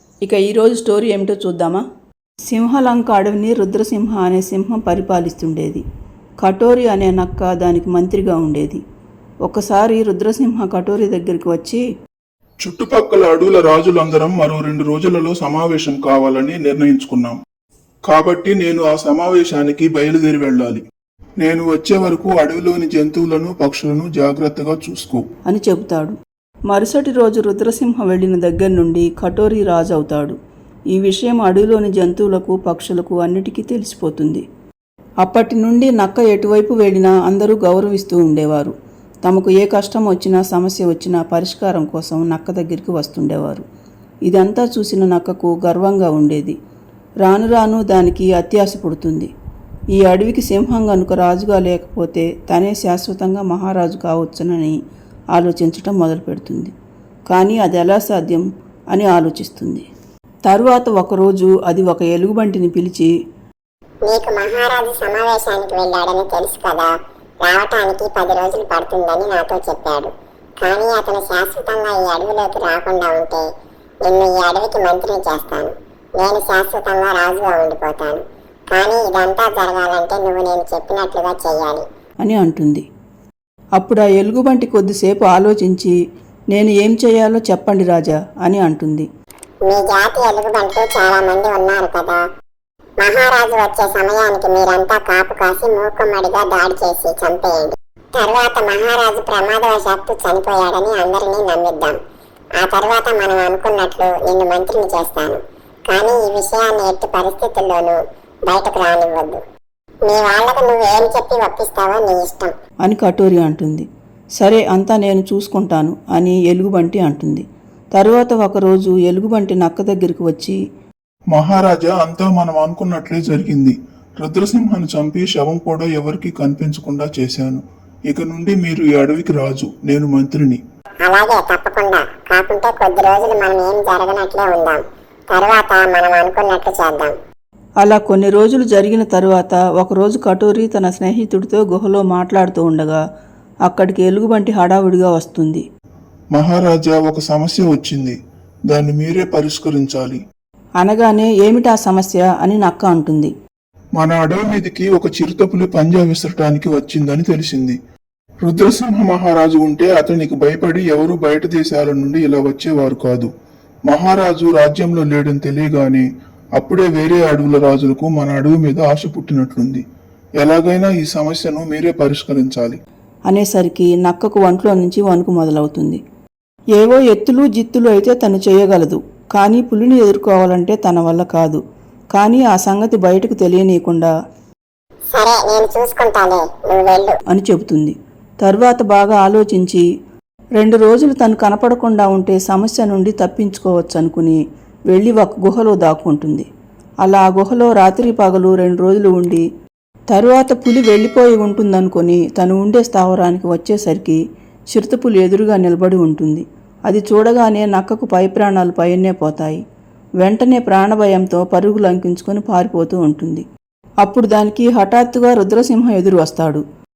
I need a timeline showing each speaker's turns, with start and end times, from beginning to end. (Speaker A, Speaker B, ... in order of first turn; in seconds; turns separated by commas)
Speaker A: 0.2-1.8, Speaker A: 2.5-5.8, Speaker A: 6.4-8.8, Speaker A: 9.4-11.8, Speaker B: 12.6-17.4, Speaker B: 18.1-20.8, Speaker B: 21.4-25.2, Speaker A: 25.5-26.2, Speaker A: 26.7-30.4, Speaker A: 30.9-34.4, Speaker A: 35.2-38.7, Speaker A: 39.2-43.6, Speaker A: 44.3-46.6, Speaker A: 47.2-49.3, Speaker A: 49.9-54.8, Speaker A: 55.3-56.7, Speaker A: 57.3-59.9, Speaker A: 60.5-63.1, Speaker C: 64.1-66.9, Speaker C: 67.4-70.1, Speaker C: 70.6-73.4, Speaker C: 74.0-81.8, Speaker A: 82.2-82.8, Speaker A: 83.8-86.0, Speaker A: 86.5-89.1, Speaker C: 89.7-92.2, Speaker C: 93.0-102.0, Speaker C: 102.6-109.4, Speaker C: 110.1-112.5, Speaker A: 112.8-113.9, Speaker A: 114.4-117.4, Speaker A: 118.0-120.6, Speaker B: 121.3-130.6, Speaker C: 131.1-137.2, Speaker A: 137.8-143.0, Speaker A: 143.7-145.6, Speaker B: 146.3-148.2, Speaker B: 148.7-150.2, Speaker A: 150.8-153.3, Speaker B: 154.0-157.8, Speaker B: 158.4-163.3, Speaker B: 163.9-166.1, Speaker B: 166.6-169.8, Speaker B: 170.4-172.8, Speaker A: 173.3-176.0, Speaker A: 176.8-181.6, Speaker A: 182.1-184.1, Speaker C: 185.1-187.2, Speaker A: 187.3-189.8, Speaker A: 190.6-194.4, Speaker A: 194.9-196.5, Speaker A: 197.0-199.4, Speaker A: 200.1-204.2, Speaker A: 204.7-209.6, Speaker A: 210.2-213.4, Speaker A: 214.0-216.6